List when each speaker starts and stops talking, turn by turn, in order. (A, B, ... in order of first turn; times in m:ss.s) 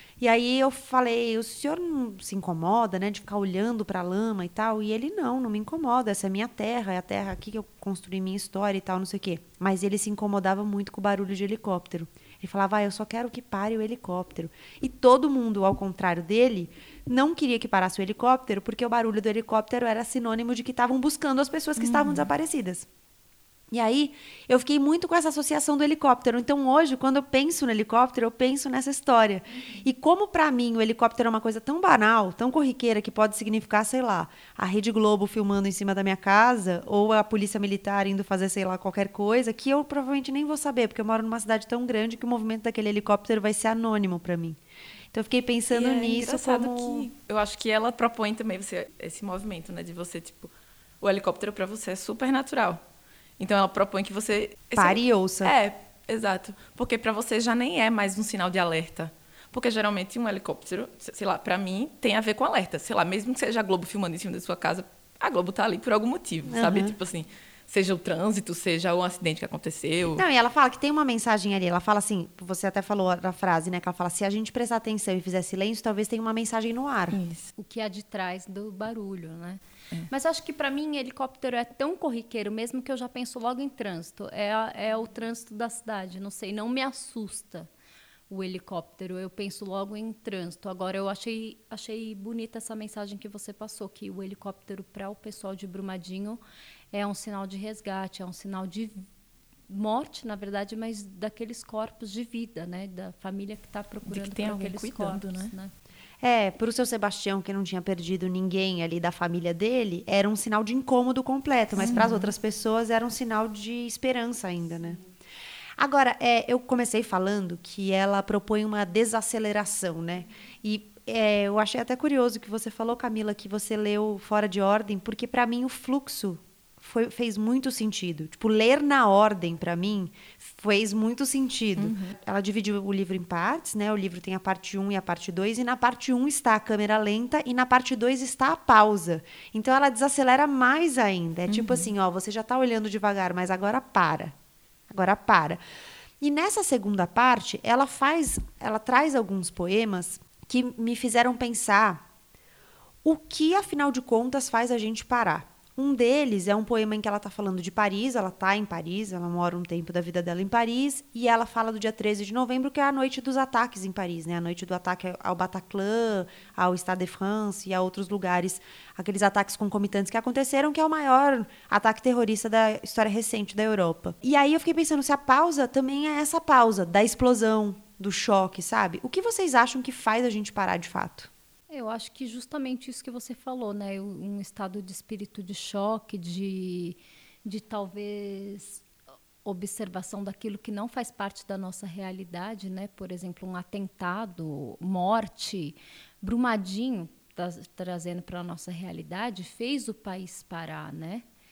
0:00.2-0:22.9 A
0:21.8-0:22.3 B
0:23.7-0:44.6 A
0:45.1-0:47.1 A
0:45.7-0:50.5 B
0:51.0-0:52.8 B
0:53.4-1:10.2 B
0:54.8-0:55.5 A
1:06.5-1:06.9 A
1:10.2-1:17.2 A
1:17.1-1:17.5 B
1:17.6-1:27.7 C
1:28.3-1:36.4 C
1:36.9-1:39.0 C
1:39.7-1:45.7 C
1:44.0-1:45.5 B
1:46.2-1:55.0 A
1:51.8-1:52.3 B
1:55.8-2:24.4 A
2:11.8-2:12.1 B
2:21.5-2:21.9 B
2:24.9-2:25.6 A
2:26.2-2:32.0 A
2:33.0-3:01.3 A
3:01.7-3:08.8 C
3:09.4-3:21.2 C